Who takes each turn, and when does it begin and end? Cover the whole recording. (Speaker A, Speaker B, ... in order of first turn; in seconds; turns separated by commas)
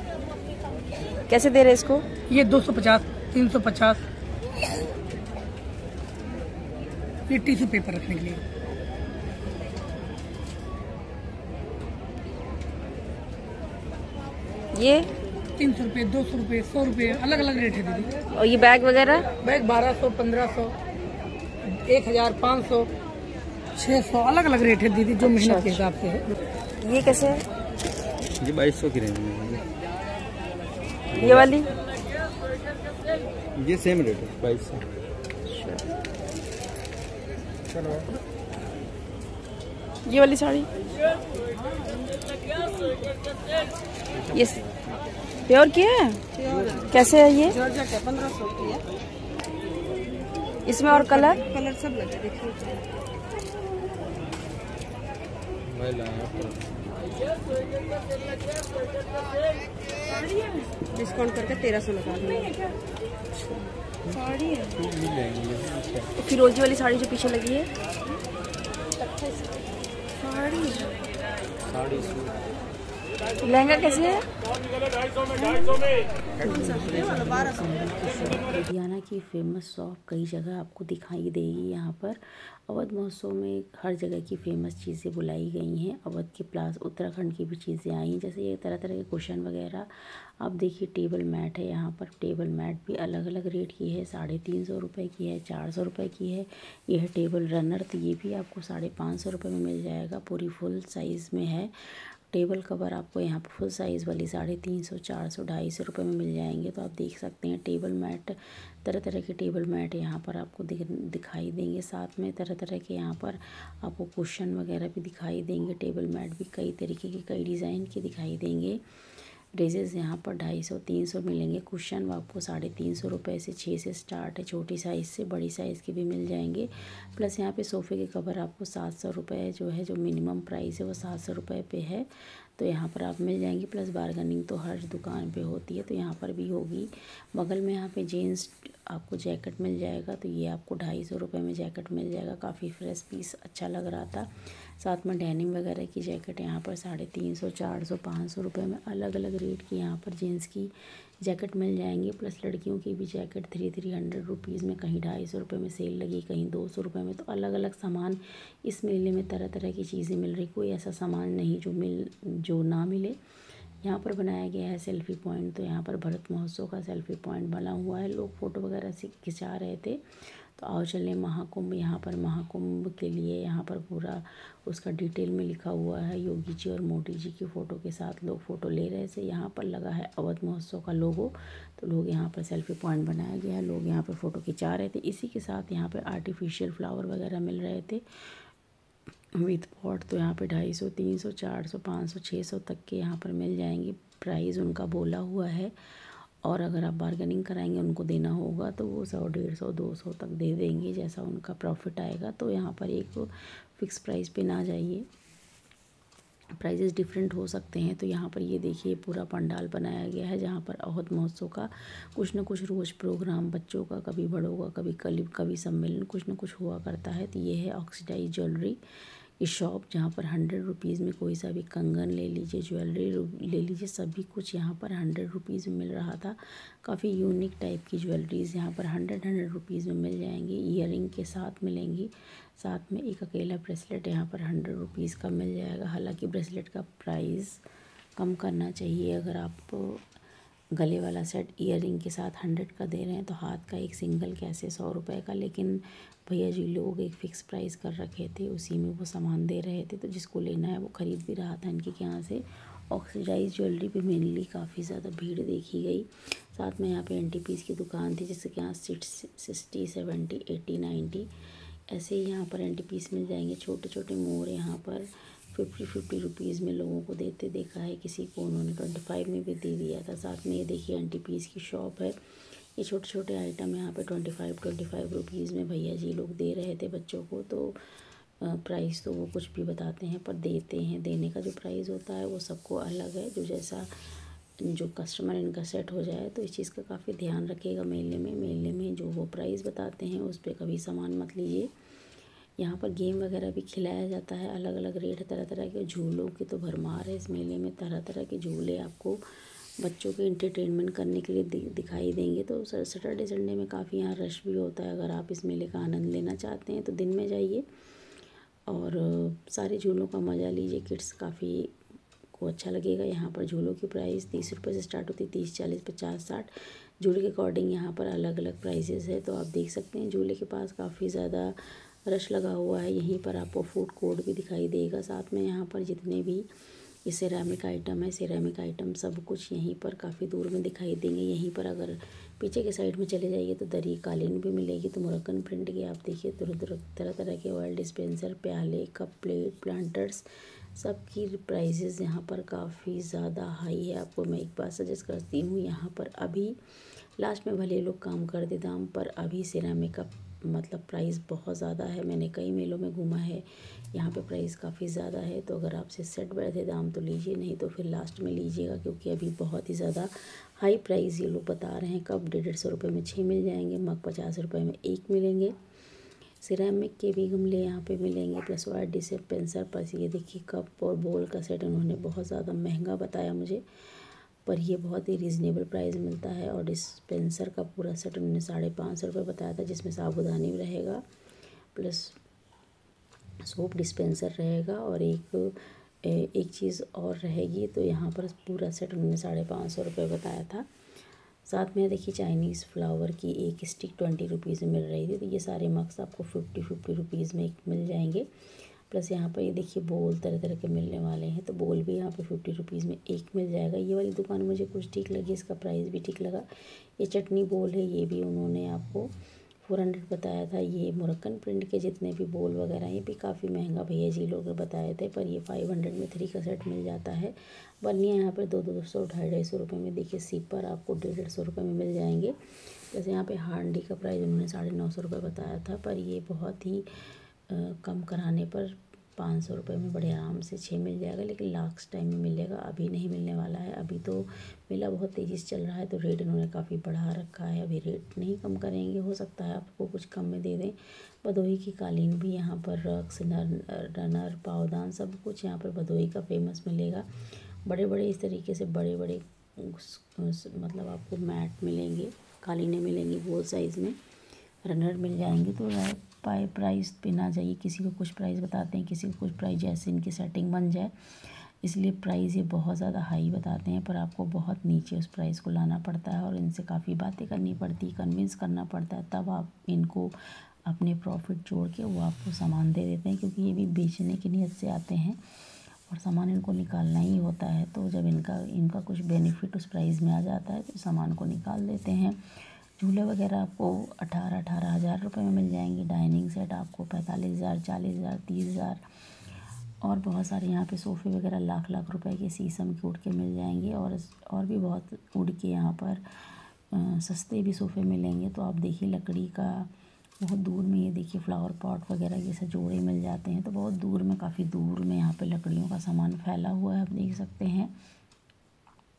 Speaker A: 1.3-2.0, Speaker B: 2.3-4.0, Speaker B: 7.3-8.4, Speaker A: 14.7-15.1, Speaker B: 15.6-18.1, Speaker A: 18.3-19.3, Speaker B: 19.4-20.7, Speaker B: 21.9-22.9, Speaker B: 23.8-26.2, Speaker A: 25.2-25.8, Speaker A: 26.8-27.4, Speaker C: 28.4-29.6, Speaker C: 31.1-31.5, Speaker A: 31.2-31.6, Speaker C: 33.6-35.0, Speaker A: 35.5-35.8, Speaker A: 40.1-40.7, Speaker C: 44.3-44.9, Speaker A: 45.5-46.2, Speaker D: 46.3-46.9, Speaker A: 46.9-47.5, Speaker D: 47.5-48.8, Speaker A: 50.7-51.4, Speaker D: 50.9-52.8, Speaker C: 55.7-56.7, Speaker D: 60.1-62.7, Speaker D: 64.1-64.8, Speaker C: 64.7-66.1, Speaker A: 66.2-67.7, Speaker D: 69.0-69.5, Speaker D: 70.2-71.0, Speaker C: 71.6-72.4, Speaker A: 73.4-74.2, Speaker E: 76.4-163.2, Speaker E: 163.8-188.4, Speaker E: 189.3-205.1, Speaker E: 206.6-218.8, Speaker E: 219.4-237.6, Speaker E: 238.2-240.1, Speaker E: 240.8-261.3, Speaker E: 261.9-277.8, Speaker E: 278.4-283.9, Speaker E: 284.6-291.7, Speaker E: 292.6-299.2, Speaker E: 299.8-307.6, Speaker E: 308.7-311.8, Speaker E: 312.3-326.5, Speaker E: 327.0-365.6, Speaker E: 366.4-381.0, Speaker E: 381.7-382.2, Speaker E: 383.4-390.7, Speaker E: 391.5-409.1, Speaker E: 409.6-454.0, Speaker E: 454.6-475.2, Speaker E: 475.9-482.2, Speaker E: 482.8-488.8, Speaker E: 489.8-507.7